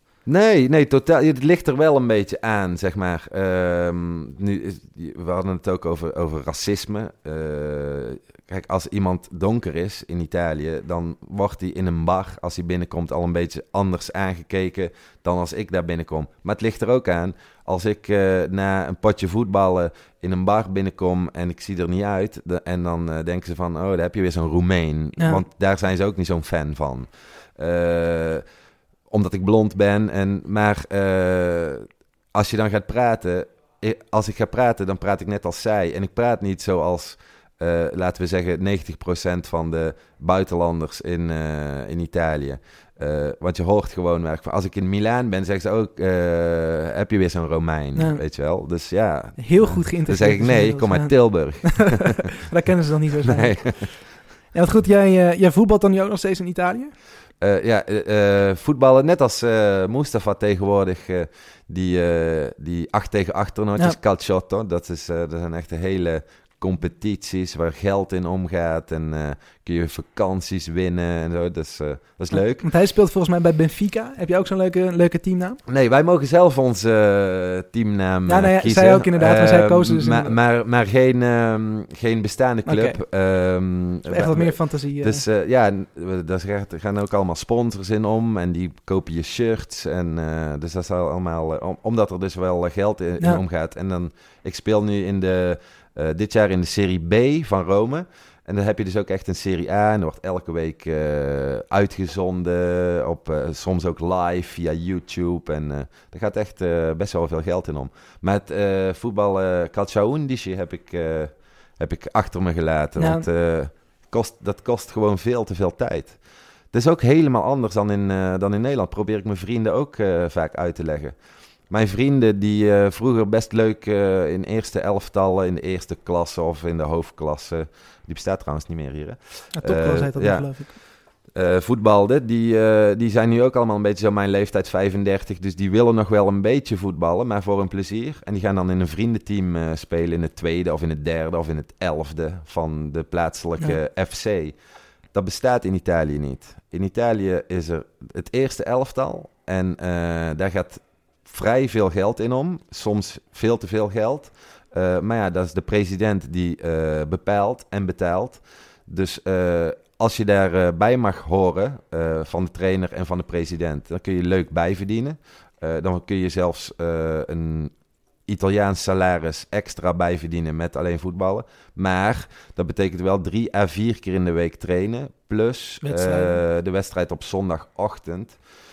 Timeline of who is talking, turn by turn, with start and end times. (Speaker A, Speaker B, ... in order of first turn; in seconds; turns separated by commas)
Speaker A: 0.2-28.4, Speaker B: 25.2-25.4, Speaker A: 29.1-52.3, Speaker B: 48.0-48.2, Speaker B: 49.4-56.9, Speaker A: 53.3-54.1, Speaker A: 57.4-72.7, Speaker B: 72.3-75.6, Speaker A: 75.7-116.2, Speaker B: 78.3-80.3, Speaker B: 82.7-83.0, Speaker B: 84.1-85.2, Speaker B: 113.0-113.2, Speaker A: 116.7-121.2, Speaker A: 121.7-144.6, Speaker B: 129.6-130.8, Speaker A: 145.1-167.7, Speaker A: 168.3-178.4, Speaker B: 175.8-176.4